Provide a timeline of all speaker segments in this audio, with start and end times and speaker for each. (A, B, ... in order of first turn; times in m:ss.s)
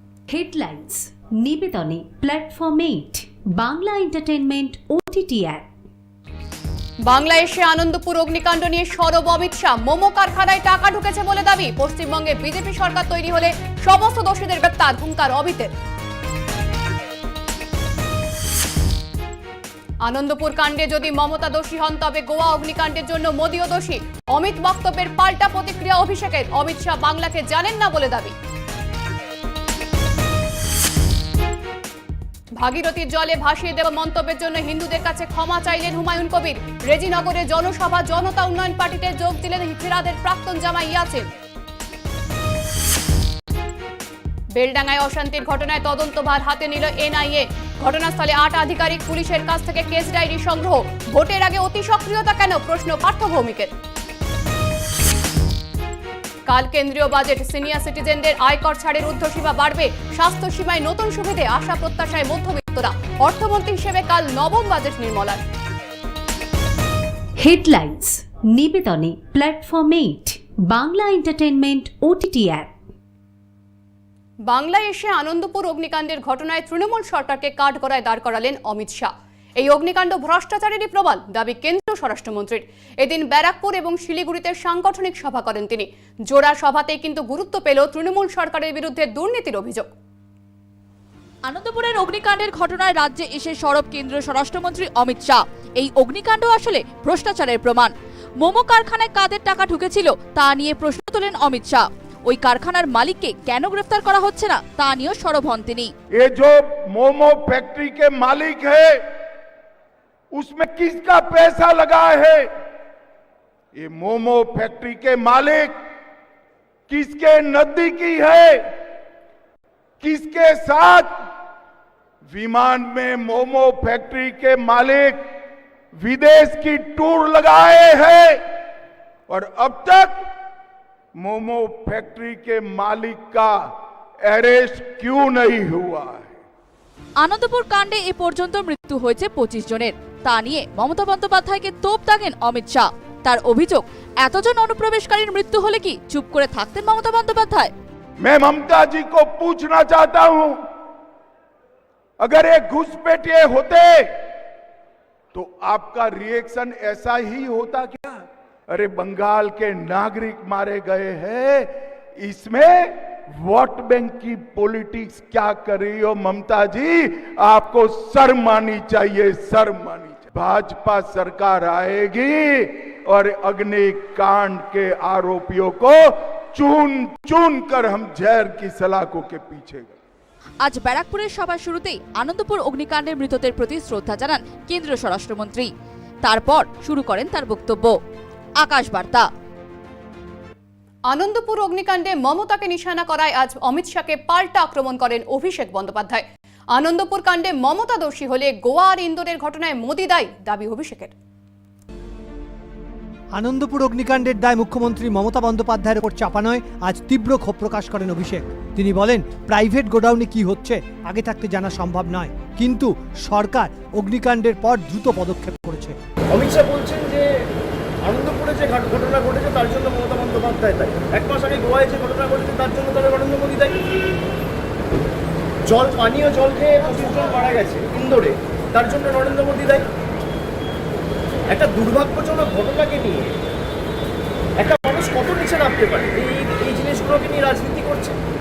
0:00.3-0:05.7 A
0:07.1-0:15.7 B
0:20.0-0:28.3 B
0:32.6-0:41.3 B
0:44.6-0:53.7 B
0:56.5-1:05.4 B
1:07.4-1:12.8 A
1:14.5-1:29.9 B
1:31.5-1:45.9 C
1:46.2-1:49.0 D
1:50.3-1:52.5 D
1:53.8-1:55.8 D
1:56.9-1:58.7 D
2:00.0-2:01.2 D
2:02.3-2:05.2 D
2:06.0-2:08.4 D
2:09.3-2:10.2 D
2:11.2-2:13.7 D
2:14.3-2:16.4 D
2:17.2-2:27.7 C
2:28.2-2:30.6 D
2:32.2-2:34.1 D
2:35.3-3:00.0 D
3:00.6-3:05.7 C
3:06.2-3:08.0 C
3:08.6-3:09.3 C
3:11.1-3:21.1 B
3:23.4-3:36.0 E
3:36.3-3:37.3 F
3:38.0-3:43.8 F
3:45.7-3:49.9 F
3:51.5-3:53.3 F
3:54.6-3:58.2 F